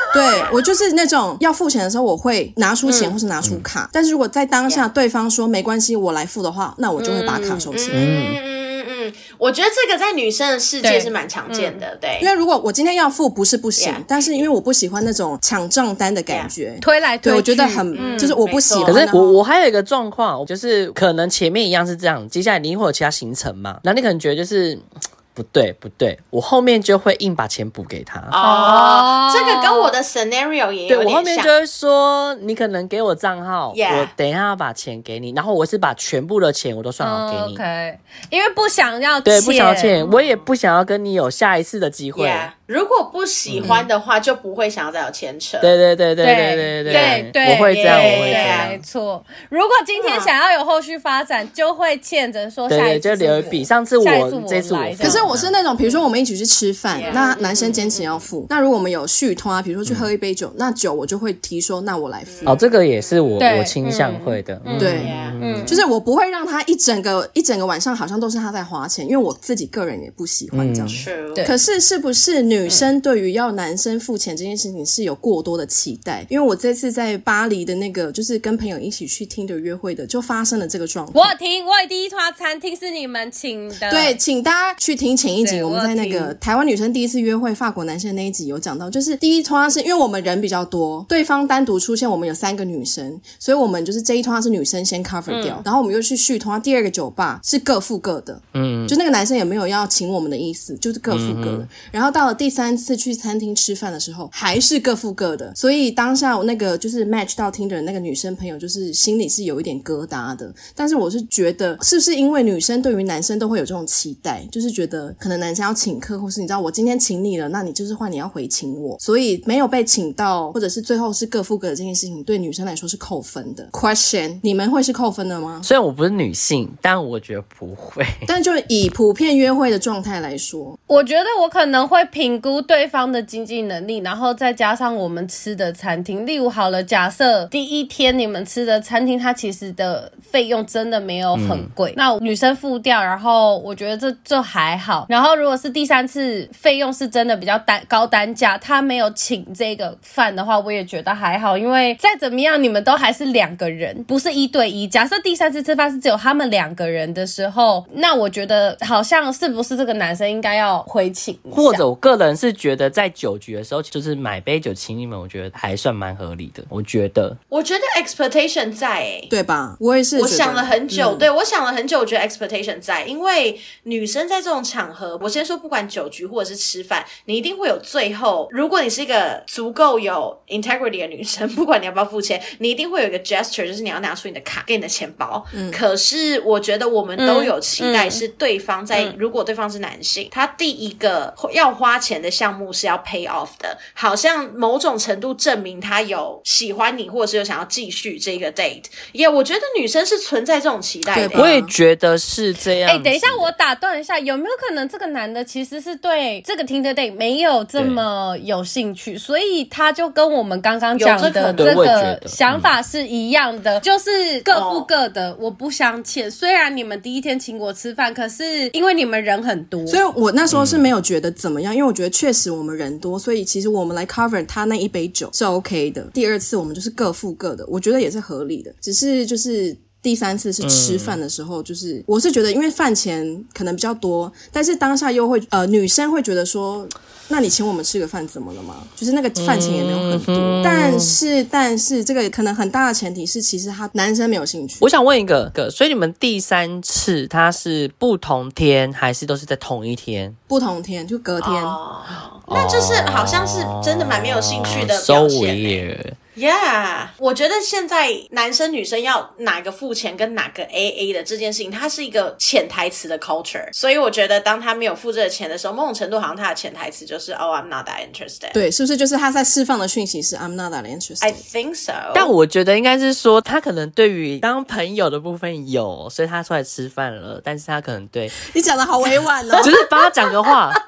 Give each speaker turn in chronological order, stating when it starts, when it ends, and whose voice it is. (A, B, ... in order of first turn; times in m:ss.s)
0:00.1-0:08.0 A
0:02.8-0:03.2 B
0:07.0-0:07.7 B
0:07.7-0:12.3 C
0:07.9-0:08.4 D
0:10.8-0:11.8 B
0:12.2-0:19.4 A
0:13.8-0:14.5 C
0:16.8-0:18.4 B
0:17.9-0:19.0 C
0:18.8-0:24.8 D
0:25.3-0:28.4 D
0:28.3-0:31.5 C
0:28.4-0:29.9 B
0:30.9-0:37.6 D
0:33.7-0:34.1 C
0:37.0-0:40.0 B
0:39.2-0:42.5 D
0:40.0-0:40.5 C
0:42.1-0:45.8 C
0:43.5-0:43.8 D
0:45.6-0:48.8 D
0:46.2-0:55.3 B
0:46.9-0:48.8 C
0:50.0-0:50.3 C
0:52.7-0:55.5 D
0:55.0-1:02.6 A
0:56.9-0:57.8 C
0:57.0-0:58.2 B
1:02.3-1:03.4 C
1:02.4-1:05.7 D
1:03.4-1:05.8 B
1:04.8-1:21.3 A
1:05.0-1:05.4 C
1:10.5-1:11.0 D
1:10.9-1:11.4 C
1:21.1-1:24.2 B
1:23.9-2:05.7 A
1:25.4-1:26.3 B
1:35.3-1:35.6 B
1:38.5-1:38.9 D
1:41.1-1:41.7 D
2:05.6-2:08.3 D
2:08.3-2:10.8 A
2:10.9-2:41.8 B
2:21.3-2:21.7 D
2:41.5-2:47.4 D
2:47.5-2:49.3 C
2:49.3-2:51.3 A
2:50.2-3:21.5 C
3:05.5-3:05.8 A
3:07.2-3:08.2 B
3:21.1-3:21.7 A
3:21.3-3:23.5 D
3:22.8-3:40.0 B
3:27.8-3:28.0 D
3:31.0-3:32.0 C
3:31.6-3:32.7 D
3:34.5-3:34.9 C
3:39.9-4:04.9 A
3:40.5-3:40.8 D
3:50.6-3:51.2 D
3:59.4-4:01.2 D
4:04.8-4:10.4 D
4:10.5-4:11.8 A
4:11.4-4:15.8 C
4:12.5-4:16.2 D
4:16.4-4:28.6 C
4:28.5-4:31.4 A
4:31.2-4:32.3 C
4:32.1-4:38.3 D
4:38.5-4:39.7 A
4:39.5-4:40.5 C
4:39.6-4:40.8 D